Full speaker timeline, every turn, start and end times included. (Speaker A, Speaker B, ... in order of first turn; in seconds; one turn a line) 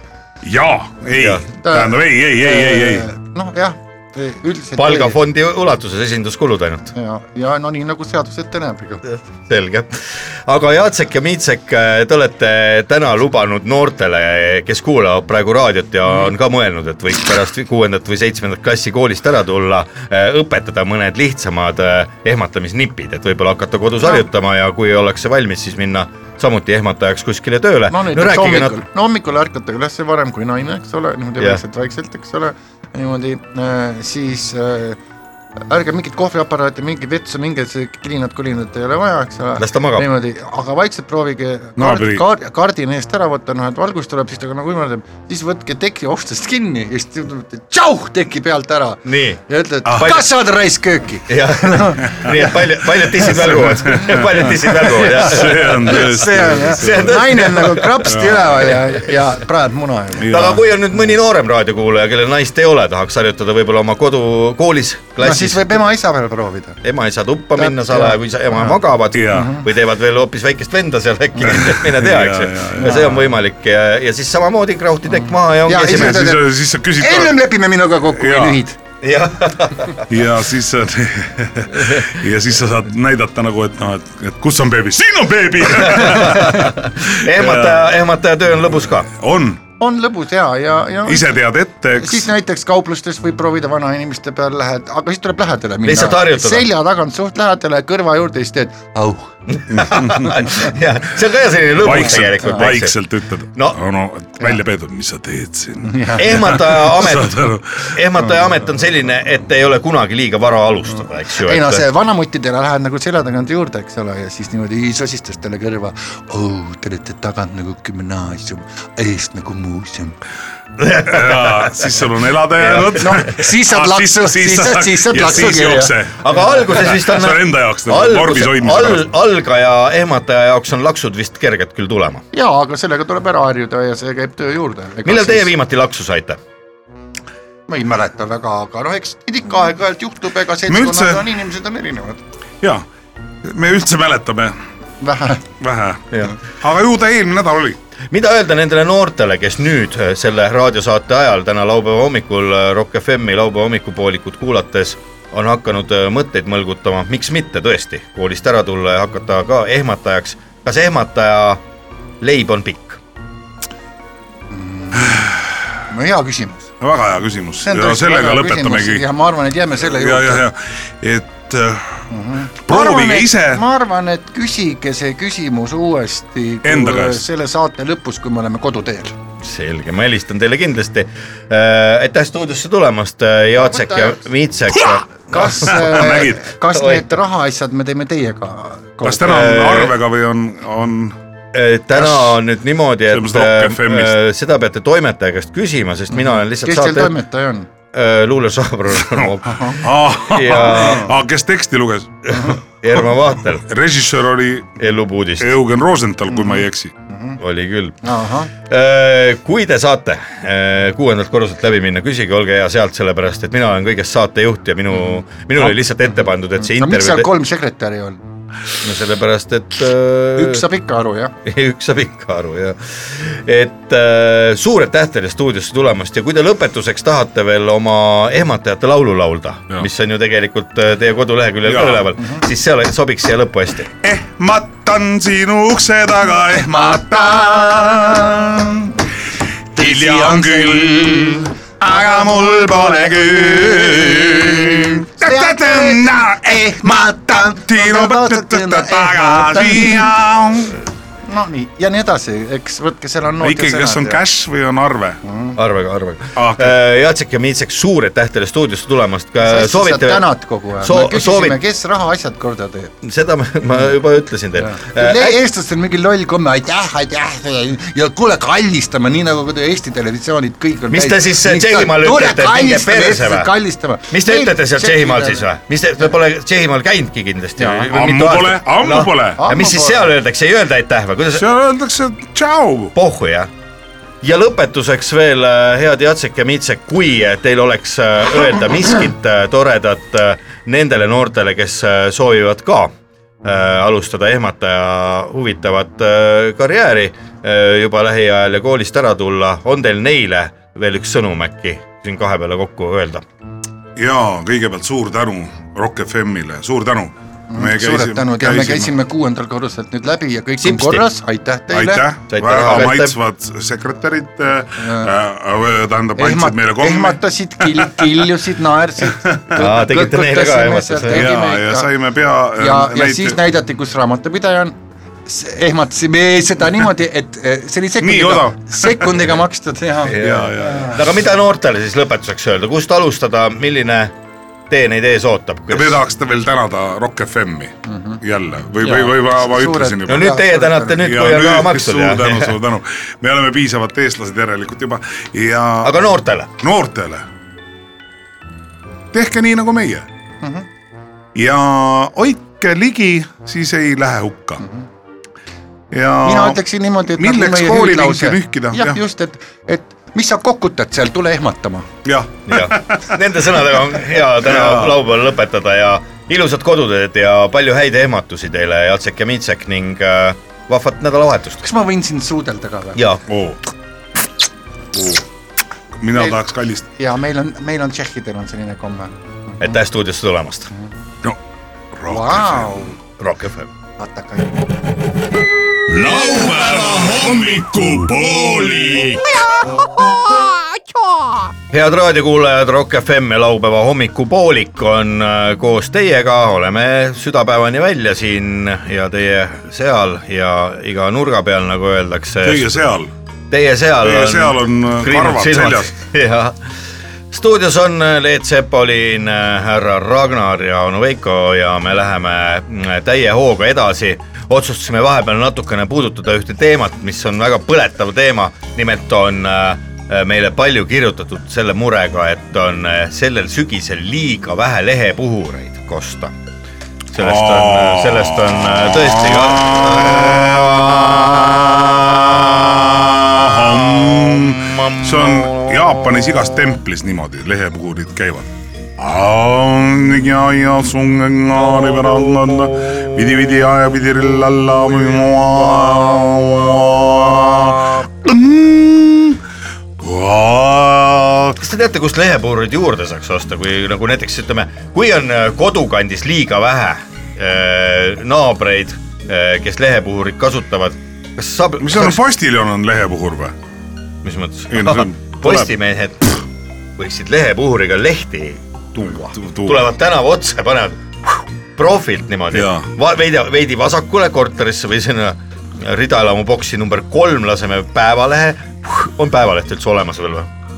Speaker A: 0.4-3.1
Speaker B: 1.1-1.5
Speaker C: 1.6-5.2
Speaker B: 4.8-6.9
Speaker C: 6.9-9.0
Speaker B: 9.0-28.8
Speaker C: 27.9-35.0
Speaker C: 35.7-60.3
Speaker B: 39.6-40.1
Speaker A: 41.8-42.2
Speaker B: 49.0-50.2
Speaker A: 49.8-50.2
Speaker B: 51.3-58.1
Speaker A: 53.5-58.8
Speaker A: 60.1-60.6
Speaker B: 60.3-65.7
Speaker C: 65.2-66.8
Speaker B: 66.8-76.4
Speaker C: 67.5-68.8
Speaker A: 69.1-69.6
Speaker C: 69.3-69.7
Speaker A: 71.4-73.3
Speaker C: 72.8-73.2
Speaker C: 75.1-78.8
Speaker A: 75.8-77.4
Speaker A: 78.1-78.6
Speaker B: 79.0-80.0
Speaker A: 80.1-87.9
Speaker B: 85.8-89.1
Speaker A: 89.0-89.6
Speaker C: 89.8-91.3
Speaker A: 91.0-92.3
Speaker C: 92.0-99.3
Speaker B: 95.8-96.7
Speaker B: 99.5-103.0
Speaker A: 99.7-100.3
Speaker A: 101.8-108.0
Speaker C: 102.4-102.7
Speaker C: 105.8-106.6
Speaker B: 106.2-111.8
Speaker C: 111.3-120.2
Speaker B: 120.8-121.8
Speaker A: 121.0-129.1
Speaker B: 122.6-123.3
Speaker C: 123.0-126.0
Speaker B: 126.2-132.2
Speaker C: 132.3-135.5
Speaker B: 135.0-136.4
Speaker C: 137.7-142.2
Speaker A: 140.7-141.3
Speaker A: 143.4-144.6
Speaker C: 145.0-145.4
Speaker A: 145.6-147.8
Speaker B: 148.1-161.6
Speaker B: 162.2-163.0
Speaker C: 164.5-165.3
Speaker A: 164.9-165.7
Speaker C: 165.9-166.7
Speaker A: 166.8-169.1
Speaker C: 167.6-170.4
Speaker A: 169.8-172.1
Speaker C: 172.1-179.2
Speaker A: 172.7-173.6
Speaker A: 176.6-177.2
Speaker B: 179.4-187.0
Speaker C: 183.6-184.2
Speaker C: 185.3-189.5
Speaker A: 185.6-186.5
Speaker A: 189.0-191.2
Speaker B: 189.2-189.9
Speaker B: 191.5-197.1
Speaker A: 191.9-192.4
Speaker A: 193.1-194.2
Speaker C: 196.1-197.7
Speaker B: 197.9-201.1
Speaker C: 199.4-199.8
Speaker A: 199.8-202.4
Speaker C: 200.6-200.9
Speaker B: 202.2-203.6
Speaker A: 203.5-204.8
Speaker B: 204.8-205.5
Speaker A: 205.4-206.9
Speaker C: 206.3-207.4
Speaker B: 207.4-208.0
Speaker C: 208.0-208.5
Speaker B: 208.6-217.3
Speaker C: 214.9-218.2
Speaker B: 218.8-220.6
Speaker C: 220.4-221.3
Speaker B: 221.4-233.9
Speaker A: 231.6-232.1
Speaker A: 234.0-238.9
Speaker C: 236.7-238.4
Speaker A: 239.7-250.8
Speaker C: 239.8-250.1
Speaker C: 251.2-254.2
Speaker A: 253.4-255.2
Speaker C: 255.2-255.6
Speaker B: 255.6-260.3
Speaker A: 256.3-256.8
Speaker C: 259.4-262.9
Speaker B: 260.8-261.6
Speaker B: 263.0-265.4
Speaker C: 264.6-275.4
Speaker B: 270.9-273.5
Speaker B: 274.1-281.4
Speaker C: 277.6-277.9
Speaker A: 277.9-279.4
Speaker C: 279.4-280.1
Speaker A: 281.3-282.9
Speaker B: 282.9-283.5
Speaker B: 284.2-292.9
Speaker B: 293.4-303.2
Speaker A: 303.9-308.9
Speaker C: 307.5-312.1
Speaker B: 310.6-311.1
Speaker A: 311.7-318.3
Speaker B: 312.3-313.1
Speaker C: 314.8-315.1
Speaker C: 316.2-321.9
Speaker A: 319.1-319.6
Speaker B: 319.6-321.3
Speaker A: 321.1-323.4
Speaker C: 322.6-324.7
Speaker C: 325.2-331.0
Speaker A: 328.0-329.4
Speaker B: 330.0-334.1
Speaker A: 330.1-331.0
Speaker B: 334.7-336.0
Speaker A: 335.7-340.4
Speaker C: 337.9-338.2
Speaker C: 338.8-341.0
Speaker B: 340.1-342.6
Speaker A: 340.9-346.0
Speaker B: 345.8-346.5
Speaker A: 346.6-347.3
Speaker A: 349.1-350.1
Speaker C: 350.4-350.6
Speaker A: 351.3-354.6
Speaker C: 354.6-354.9
Speaker A: 355.9-356.6
Speaker C: 356.2-361.9
Speaker A: 357.1-359.0
Speaker A: 362.0-363.2
Speaker B: 362.5-371.6
Speaker A: 363.8-365.0
Speaker C: 371.6-373.1
Speaker B: 372.9-373.2
Speaker A: 373.3-373.6
Speaker A: 374.9-375.2
Speaker A: 376.0-376.9
Speaker C: 377.0-379.8
Speaker B: 379.6-380.7
Speaker A: 381.9-382.9
Speaker C: 382.1-383.0
Speaker B: 383.2-383.7
Speaker C: 384.0-384.7
Speaker D: 385.9-389.3
Speaker C: 389.4-391.4
Speaker B: 391.7-402.7
Speaker A: 402.4-403.1
Speaker B: 403.5-406.6
Speaker A: 404.0-405.9
Speaker B: 407.3-426.3
Speaker B: 427.1-436.7
Speaker A: 427.1-449.4
Speaker B: 441.9-443.2
Speaker B: 445.5-445.8
Speaker A: 450.0-451.6
Speaker B: 451.6-462.2
Speaker A: 461.8-463.5
Speaker B: 464.2-466.3
Speaker A: 464.7-465.7
Speaker B: 467.0-480.5
Speaker A: 469.0-469.9
Speaker A: 472.5-472.9